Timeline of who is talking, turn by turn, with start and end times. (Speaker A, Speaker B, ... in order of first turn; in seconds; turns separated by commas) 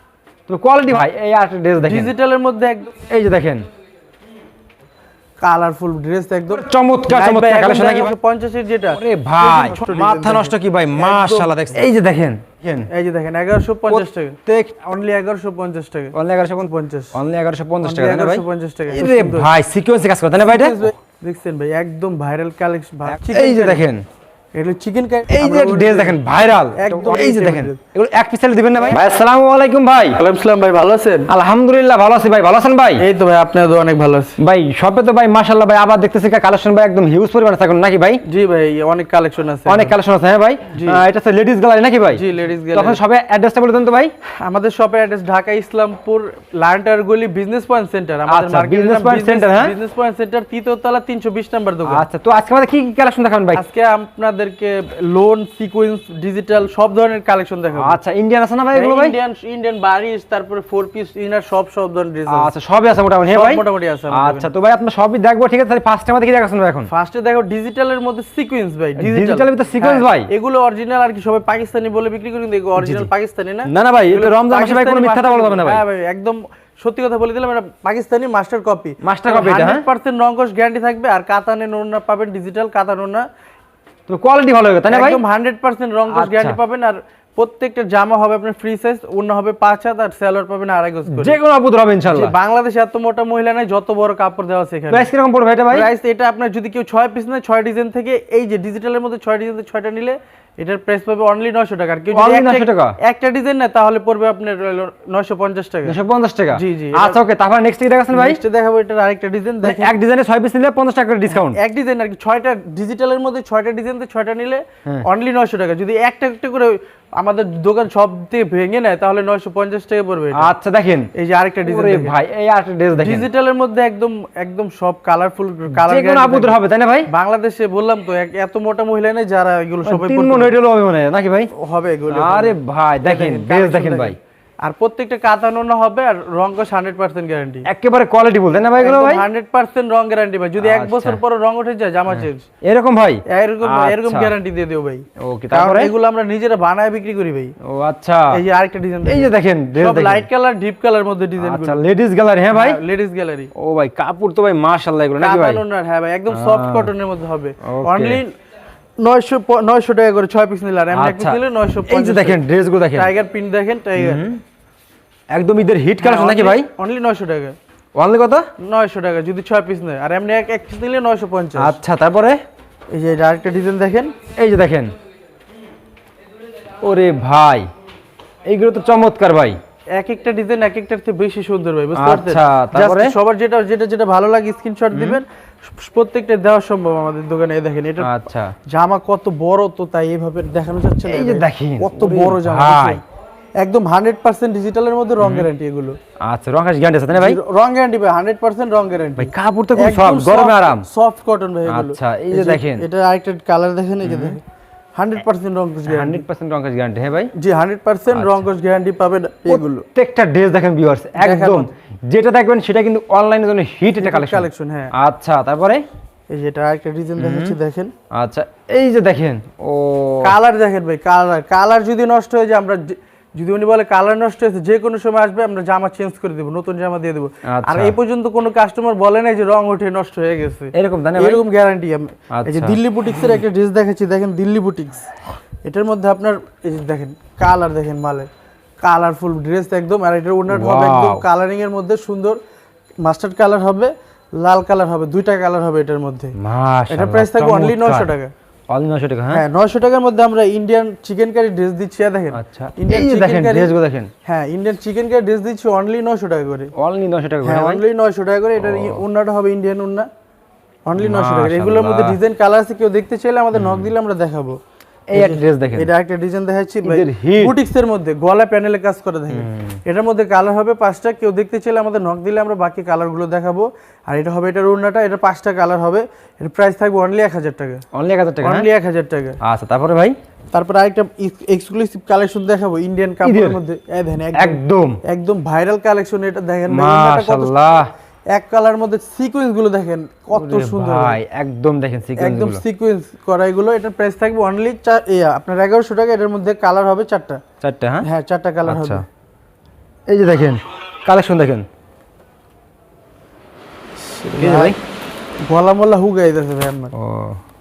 Speaker A: 0.5-2.1, Speaker B: 1.8-3.0, Speaker A: 3.0-3.6, Speaker B: 5.4-11.8, Speaker A: 6.5-8.1, Speaker A: 8.9-12.9, Speaker B: 12.9-17.2, Speaker A: 13.9-15.0, Speaker A: 16.1-20.9, Speaker B: 17.8-19.5, Speaker B: 20.4-23.8, Speaker A: 23.1-24.0, Speaker B: 24.5-26.2, Speaker A: 25.3-30.2, Speaker B: 26.7-27.8, Speaker B: 30.1-31.3, Speaker A: 31.3-33.0, Speaker B: 33.0-34.4, Speaker A: 34.4-38.2, Speaker B: 38.2-40.0, Speaker A: 39.7-44.1, Speaker B: 40.7-41.0, Speaker B: 42.1-43.0, Speaker B: 44.4-52.0, Speaker A: 48.3-49.7, Speaker A: 51.9-53.6, Speaker B: 53.5-58.0, Speaker A: 57.8-59.2, Speaker B: 58.7-62.5, Speaker A: 62.3-66.9, Speaker B: 63.3-64.5, Speaker B: 66.9-83.2, Speaker A: 69.0-70.3, Speaker A: 72.8-73.1, Speaker A: 73.7-75.8, Speaker A: 79.0-79.8, Speaker A: 84.1-85.2, Speaker B: 84.9-91.4, Speaker A: 86.1-86.6, Speaker A: 91.1-92.3, Speaker B: 92.1-95.1, Speaker A: 94.9-95.9, Speaker B: 95.7-106.0, Speaker A: 102.1-103.0, Speaker A: 105.8-108.4, Speaker B: 106.5-107.2, Speaker B: 108.1-109.9, Speaker A: 109.6-111.6, Speaker B: 111.3-120.5, Speaker A: 120.3-121.1, Speaker B: 121.1-122.2, Speaker A: 121.6-123.3, Speaker B: 123.0-126.6, Speaker A: 125.7-127.1, Speaker B: 127.1-130.5, Speaker A: 129.8-131.5, Speaker B: 131.5-137.7, Speaker A: 132.1-134.2, Speaker A: 137.7-139.2, Speaker B: 138.8-142.4, Speaker A: 140.6-141.2, Speaker A: 142.1-144.3, Speaker B: 143.3-147.5, Speaker A: 145.2-145.9, Speaker A: 147.6-148.4, Speaker B: 148.3-151.8, Speaker A: 149.0-150.3, Speaker A: 151.4-152.8, Speaker B: 152.5-153.5, Speaker A: 153.5-155.6, Speaker B: 155.2-158.3, Speaker A: 156.3-156.9, Speaker A: 157.6-158.2, Speaker B: 159.0-162.4, Speaker A: 160.9-163.1, Speaker B: 162.9-164.2, Speaker A: 164.0-164.4, Speaker A: 165.3-166.7, Speaker B: 166.0-167.6, Speaker A: 167.9-168.4, Speaker B: 168.6-171.8, Speaker A: 171.6-172.4, Speaker B: 172.9-174.1, Speaker A: 174.3-174.9, Speaker A: 176.8-177.7, Speaker A: 178.5-179.6, Speaker B: 180.0-193.0, Speaker A: 181.9-183.2, Speaker A: 184.9-185.2, Speaker A: 188.0-188.5, Speaker A: 191.0-193.0, Speaker B: 193.6-196.0, Speaker A: 195.2-195.5, Speaker A: 196.2-197.4, Speaker B: 197.1-204.4, Speaker A: 199.2-200.8, Speaker A: 201.7-202.8, Speaker A: 204.0-204.4, Speaker B: 204.9-206.2, Speaker A: 205.8-207.3, Speaker B: 207.3-209.8, Speaker A: 208.1-208.4, Speaker A: 209.5-215.8, Speaker B: 211.2-211.7, Speaker B: 214.0-214.9, Speaker B: 216.3-217.9, Speaker A: 217.2-217.6, Speaker A: 218.1-220.3, Speaker B: 220.2-235.1, Speaker A: 227.4-228.0, Speaker A: 230.7-231.4, Speaker A: 232.3-232.8, Speaker B: 235.6-238.3, Speaker B: 238.8-242.4, Speaker A: 240.5-241.2, Speaker B: 243.0-246.3, Speaker A: 246.4-248.1, Speaker B: 246.9-248.3, Speaker A: 248.7-249.4, Speaker B: 249.3-253.7, Speaker A: 252.3-254.1, Speaker B: 254.2-256.7, Speaker A: 256.8-257.8, Speaker B: 257.4-260.1, Speaker A: 258.6-259.0, Speaker B: 260.9-264.6, Speaker A: 261.0-262.1, Speaker A: 263.5-263.9, Speaker A: 265.1-265.9, Speaker B: 265.1-277.8, Speaker A: 266.8-267.6, Speaker A: 269.3-269.8, Speaker A: 277.9-278.7, Speaker B: 278.4-279.4, Speaker A: 279.4-280.1, Speaker B: 280.5-287.5, Speaker A: 283.2-283.6, Speaker A: 284.3-285.0, Speaker A: 286.7-287.9, Speaker B: 288.3-291.2, Speaker A: 290.3-292.6, Speaker B: 292.1-297.4, Speaker A: 297.6-298.1, Speaker B: 298.0-299.0, Speaker A: 298.6-299.0, Speaker A: 300.1-301.6, Speaker B: 304.0-304.8, Speaker A: 304.4-304.8, Speaker B: 305.4-306.9, Speaker A: 306.9-307.4